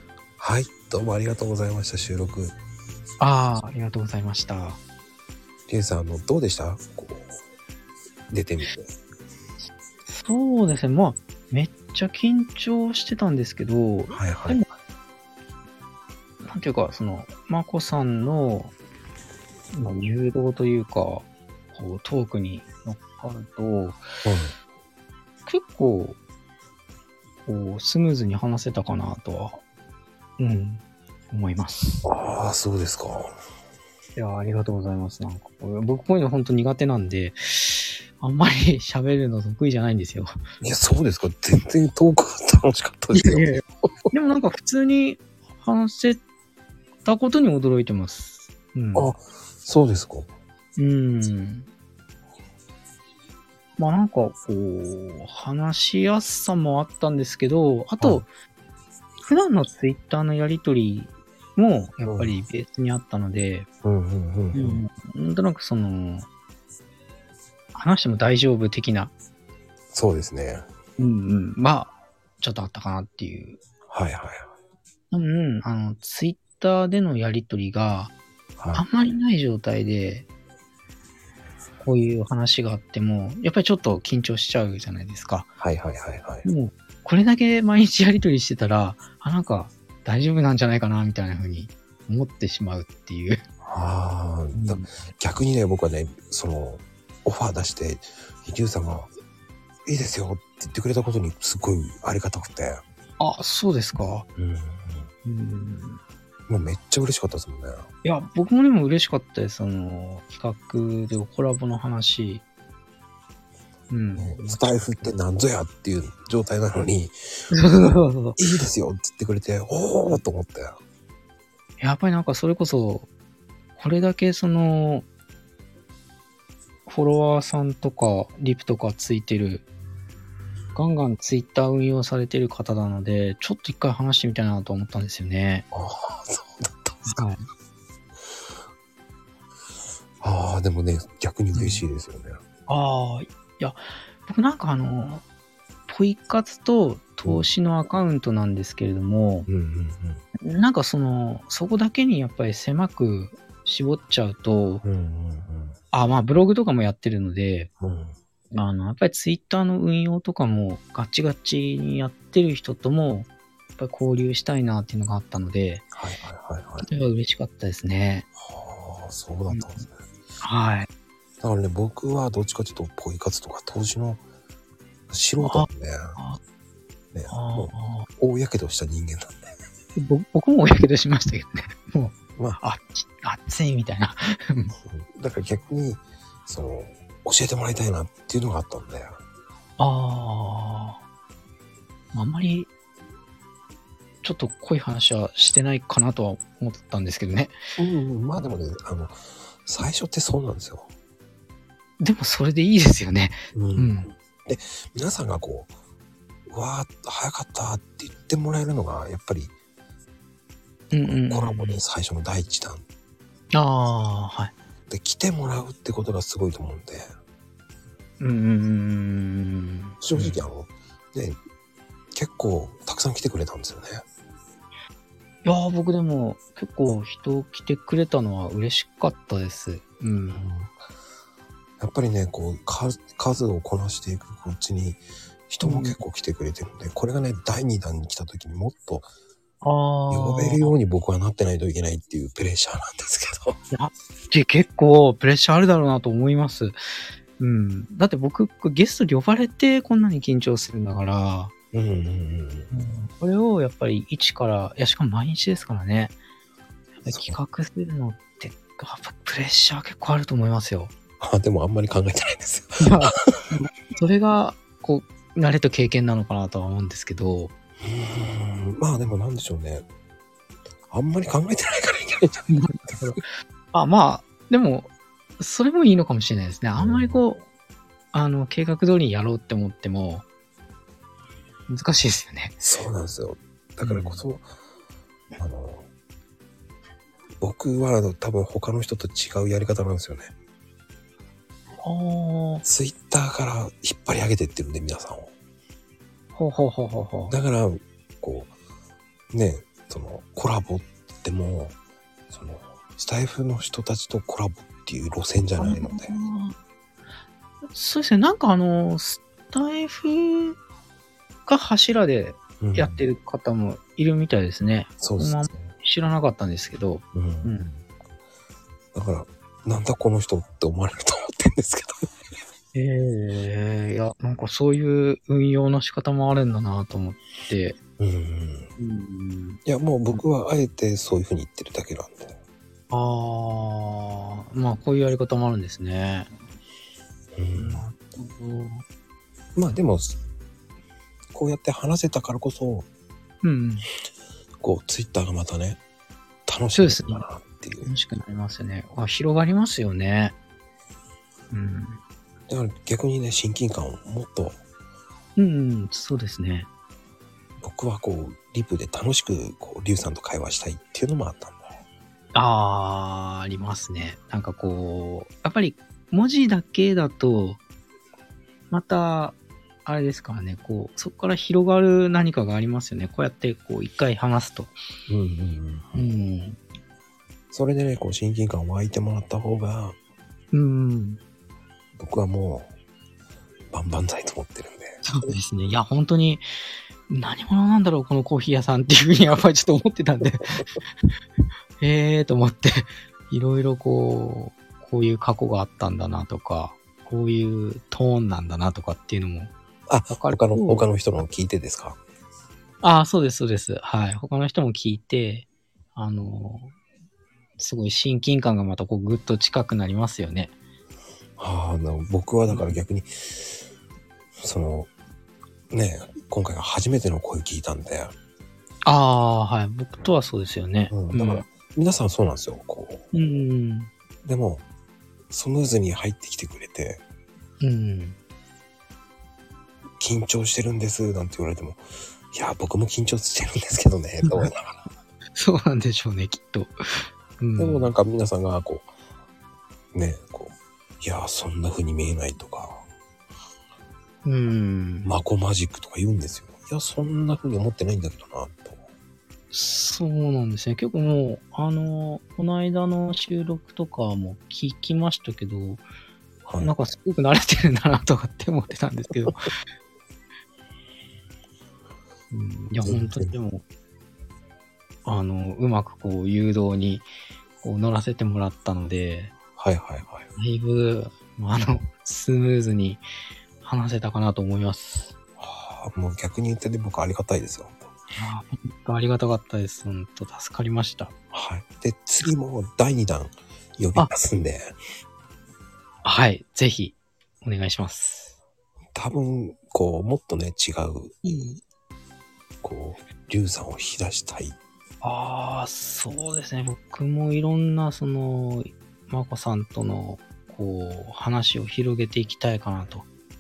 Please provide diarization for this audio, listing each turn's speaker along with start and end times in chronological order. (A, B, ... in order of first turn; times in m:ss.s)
0:00.4-0:02.6 A
0:03.2-0:04.8 B
0:05.7-0:07.3 A
0:08.3-0:08.8 A
0:10.1-0:14.6 B
0:14.1-0:14.6 A
0:16.4-0:18.7 B
0:19.7-0:24.0 B
0:24.2-0:24.5 A
0:25.5-0:26.2 B
0:27.5-0:29.6 B
0:30.4-0:32.1 B
0:32.0-0:33.3 A
0:34.2-0:40.3 B
0:40.6-0:43.5 A
0:43.1-0:46.2 B
0:47.0-0:49.1 B
0:49.0-0:50.3 A
0:50.8-0:51.7 B
0:53.8-0:58.3 B
0:59.2-1:03.7 B
1:02.0-1:02.4 A
1:03.8-1:04.8 A
1:04.5-1:06.3 B
1:07.7-1:09.1 B
1:09.9-1:10.7 A
1:11.0-1:13.6 B
1:13.9-1:14.5 A
1:15.1-1:18.1 B
1:18.6-1:18.8 A
1:18.7-1:20.3 B
1:21.8-1:25.5 B
1:25.6-1:26.5 A
1:26.4-1:33.4 B
1:33.6-1:39.1 A
1:34.5-1:34.9 B
1:39.9-1:42.8 A
1:43.2-1:44.3 B
1:44.4-1:45.1 A
1:45.2-1:46.0 B
1:46.5-1:47.8 A
1:48.0-1:52.4 B
1:53.9-1:55.1 B
1:54.2-1:57.2 A
1:57.5-1:58.4 B
1:58.4-2:00.8 A
2:01.8-2:03.1 B
2:03.8-2:05.1 B
2:06.9-2:09.6 B
2:10.8-2:15.7 B
2:15.7-2:17.2 A
2:17.1-2:17.5 B
2:20.2-2:22.4 A
2:21.5-2:21.8 B
2:22.7-2:25.2 B
2:25.9-2:29.5 B
2:29.5-2:30.2 A
2:30.4-2:34.8 B
2:34.8-2:35.8 A
2:35.9-2:37.7 B
2:37.8-2:38.2 A
2:38.5-2:45.9 B
2:45.9-2:46.9 A
2:46.8-2:48.3 B
2:48.4-2:50.0 A
2:49.5-2:49.8 B
2:50.4-2:50.9 B
2:51.4-2:54.2 A
2:55.1-2:56.2 A
2:55.4-2:56.4 B
2:57.1-2:59.4 A
2:57.3-2:58.1 B
3:00.0-3:04.8 B
3:04.9-3:09.2 A
3:09.8-3:11.0 B
3:12.1-3:12.7 B
3:14.2-3:17.6 B
3:17.8-3:20.9 A
3:22.0-3:24.1 B
3:23.5-3:25.7 A
3:26.5-3:29.5 A
3:30.9-3:32.8 A
3:30.9-3:31.8 B
3:33.5-3:34.6 B
3:34.9-3:37.1 A
3:38.2-3:40.4 B
3:40.0-3:41.4 A
3:42.2-3:44.0 A
3:45.4-3:50.4 B
3:50.3-3:50.7 A
3:51.8-3:59.1 A
3:55.6-3:56.0 B
3:59.6-4:00.8 B
4:00.1-4:03.6 A
4:03.7-4:06.8 B
4:07.4-4:11.5 B
4:11.7-4:12.7 A
4:12.7-4:16.2 B
4:17.0-4:20.9 B
4:17.0-4:17.4 A
4:21.2-4:23.2 A
4:22.8-4:27.5 B
4:27.8-4:29.9 A
4:30.9-4:32.9 A
4:32.5-4:37.4 B
4:36.8-4:37.2 A
4:38.1-4:40.3 B
4:41.7-4:42.6 B
4:42.6-4:44.5 A
4:43.8-4:44.2 B
4:45.4-4:45.9 A
4:47.4-4:50.3 A
4:51.8-4:52.6 B
4:52.6-4:55.3 A
4:56.4-4:57.4 B
4:57.3-4:58.5 A
4:59.3-5:01.8 A
5:02.3-5:06.1 A
5:05.6-5:06.6 B
5:07.7-5:10.6 B
5:11.5-5:17.7 B
5:12.6-5:13.0 A
5:15.0-5:15.7 A
5:17.2-5:17.8 A
5:18.9-5:22.1 A
5:22.7-5:27.8 B
5:28.0-5:28.7 A
5:28.8-5:29.6 B
5:29.7-5:32.4 A
5:32.9-5:36.3 B
5:37.4-5:37.8 A
5:37.6-5:38.8 B
5:39.6-5:40.2 A
5:41.3-5:42.9 A
5:43.4-5:43.9 B
5:44.6-5:45.8 A
5:46.5-5:47.9 A
5:46.7-5:47.3 B
5:47.8-5:50.4 B
5:51.5-5:52.0 B
5:52.5-5:54.6 A
5:55.4-5:56.7 B
5:57.6-6:01.8 A
6:02.3-6:07.6 B
6:08.7-6:14.8 B
6:15.1-6:16.1 A
6:16.0-6:16.6 B
6:17.5-6:20.0 A
6:20.5-6:21.2 B
6:22.0-6:22.7 A
6:23.7-6:25.3 A
6:25.0-6:26.4 B
6:27.1-6:30.8 B
6:31.8-6:39.5 B
6:39.9-6:42.0 A
6:40.1-6:40.9 B
6:42.8-6:46.8 B
6:47.6-6:50.5 B
6:51.4-6:53.6 A
6:54.4-6:54.9 A
6:55.7-6:58.2 A
6:58.8-7:01.5 B
7:00.9-7:03.0 A
7:03.1-7:03.9 B
7:04.2-7:04.6 A
7:05.3-7:07.0 A
7:07.6-7:08.2 B
7:10.0-7:14.7 A
7:14.2-7:14.5 B
7:15.4-7:17.9 B
7:17.6-7:18.9 A
7:19.9-7:22.8 A
7:24.2-7:25.1 B
7:25.0-7:28.8 A
7:29.5-7:35.8 B
7:36.5-7:36.7 A
7:36.6-7:39.5 B
7:42.3-7:43.6 B
7:42.8-7:43.3 A
7:45.0-7:47.1 B
7:47.6-7:49.3 B
7:49.6-7:50.3 A
7:50.4-7:53.0 B
7:53.6-7:55.2 B
7:55.4-7:57.9 A
7:58.2-8:01.1 B
8:01.3-8:04.8 A
8:06.0-8:08.4 B
8:09.0-8:11.2 A
8:11.2-8:11.6 B
8:12.6-8:14.6 A
8:15.0-8:23.1 B